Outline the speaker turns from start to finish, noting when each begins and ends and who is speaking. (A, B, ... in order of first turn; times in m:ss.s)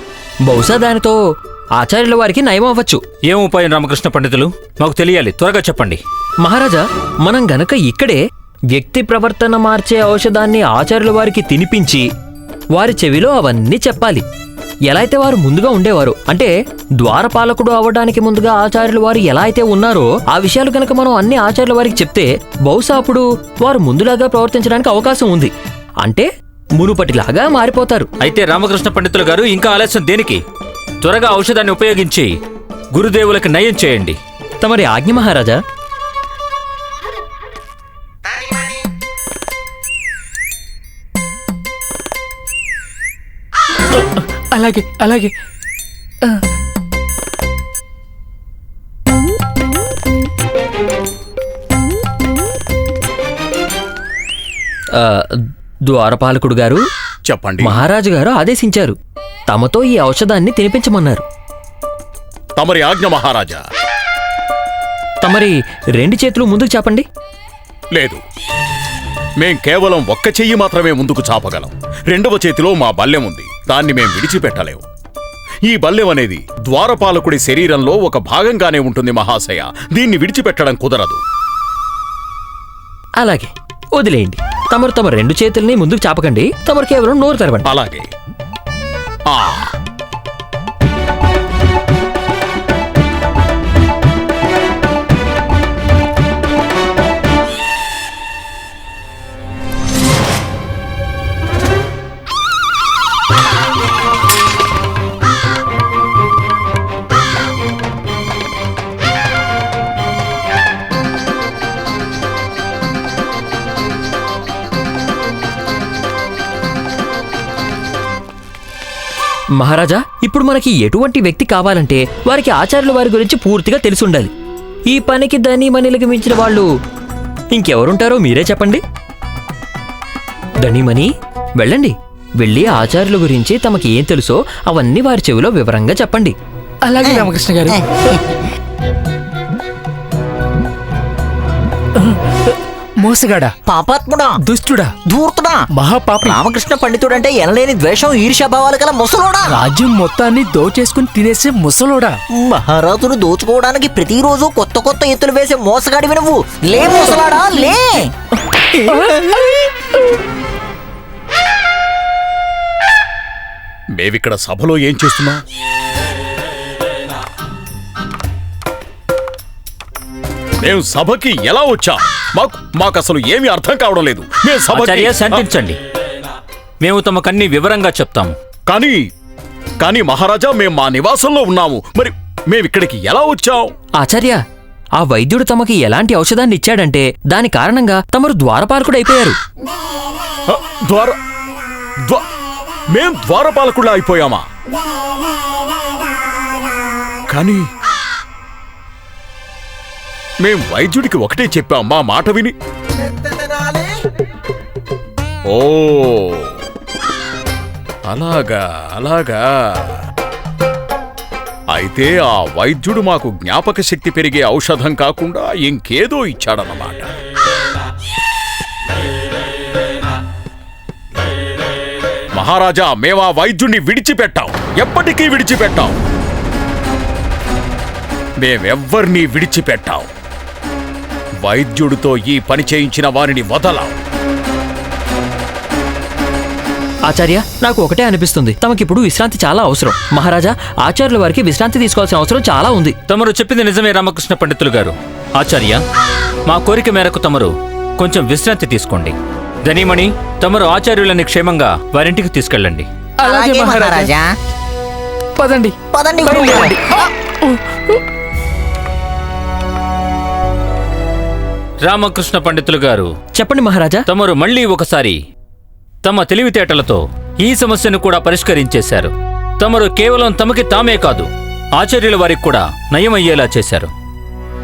0:00.5-0:01.2 A
0:01.8-0:03.0 A
0:03.3-0:06.0 B
0:06.4-0:08.2 A
0:08.7-0:12.0 A
0:12.7-0:14.2 A
0:14.9-0:25.5 A
0:26.0-0:28.1 A
0:28.2-0:30.4 B
0:31.0-0:32.3 B
0:32.9-0:34.2 B
0:34.6-0:35.6 A
0:44.2-0:45.3 C
0:55.0-0:55.2 A
0:55.9-0:56.8 A
0:57.3-0:57.8 D
0:57.6-0:59.0 A
0:59.5-1:01.2 A
1:02.6-1:03.6 D
1:05.2-1:07.0 A
1:09.4-1:14.8 D
1:15.7-1:21.2 D
1:23.2-1:27.7 A
1:27.6-1:28.1 D
1:29.3-1:29.7 D
1:59.6-2:04.3 A
2:04.9-2:06.7 A
2:07.5-2:08.8 A
2:10.6-2:16.3 A
2:16.8-2:17.8 C
2:17.0-2:18.0 E
2:23.0-2:23.5 C
2:23.6-2:24.3 E
2:24.5-2:25.0 C
2:25.0-2:25.6 E
2:25.8-2:26.4 C
2:26.2-2:29.6 E
2:29.5-2:32.2 C
2:32.3-2:38.1 E
2:38.8-2:39.6 C
2:44.0-2:45.4 D
2:50.6-2:55.4 D
2:54.7-2:55.8 B
2:56.8-2:58.3 B
2:58.7-2:59.0 D
2:59.8-3:03.7 D
3:04.0-3:04.4 A
3:05.0-3:09.4 A
3:10.5-3:11.2 D
3:12.9-3:14.4 D
3:17.3-3:17.6 D
3:20.4-3:22.5 D
3:25.5-3:26.5 D
3:28.1-3:29.4 D
3:31.7-3:37.1 D
3:42.4-3:46.0 D
3:48.4-3:50.1 D
3:51.4-3:54.0 D
3:57.1-4:02.9 A
4:03.1-4:05.8 B
4:06.5-4:12.9 B
4:13.2-4:14.1 C
4:13.2-4:14.3 E
4:15.4-4:16.8 C
4:15.9-4:16.8 E
4:17.4-4:18.0 C
4:21.8-4:23.1 B
4:23.4-4:24.0 A
4:24.1-4:25.2 B
4:26.0-4:33.9 B